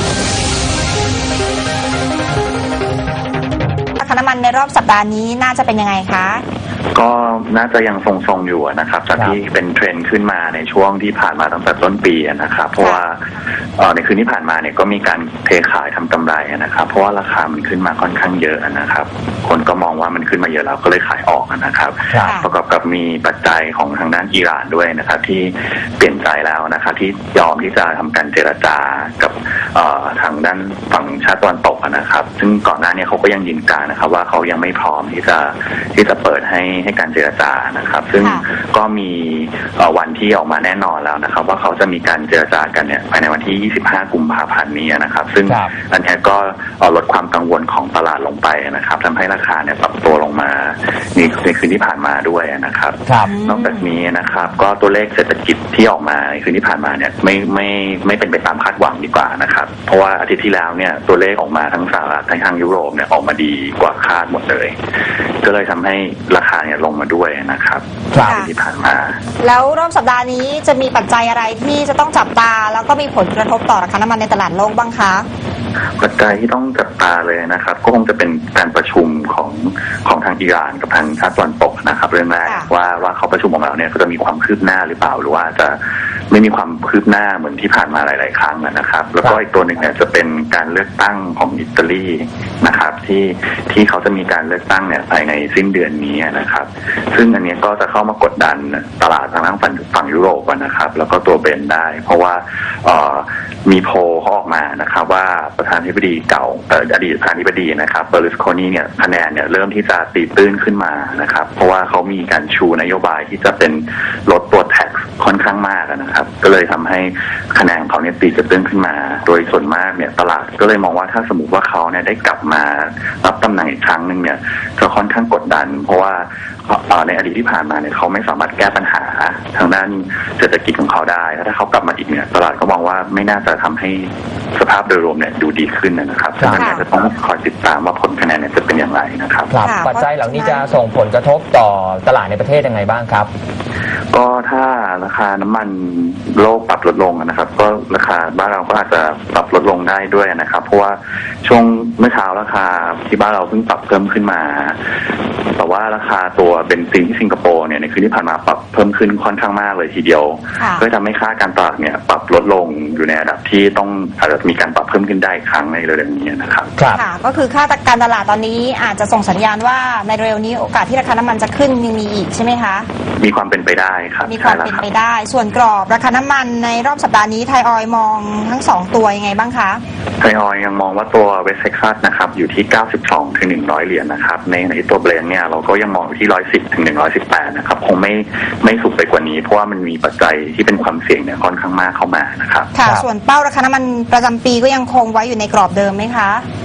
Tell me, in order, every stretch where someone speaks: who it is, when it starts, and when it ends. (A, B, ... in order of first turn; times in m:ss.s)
0:04.0-0:06.4 A
0:06.9-0:13.2 B
0:13.8-1:04.8 B
0:22.1-0:22.4 C
0:22.2-0:22.5 A
0:38.2-0:38.5 A
0:45.5-0:45.7 C
0:53.1-0:53.3 C
0:53.3-0:53.9 A
1:05.4-1:09.2 B
1:08.2-1:08.5 A
1:09.4-1:15.3 A
1:16.0-1:25.8 B
1:26.3-2:19.5 B
2:16.4-2:16.8 C
2:16.6-2:16.8 A
2:19.5-2:23.3 C
2:19.6-2:20.6 A
2:24.1-2:34.8 B
2:35.6-2:46.7 B
2:40.6-2:40.8 A
2:46.8-2:47.0 C
2:46.9-2:52.9 A
2:53.2-2:54.8 B
2:54.3-2:59.8 A
3:00.2-3:12.7 B
3:12.8-3:16.4 A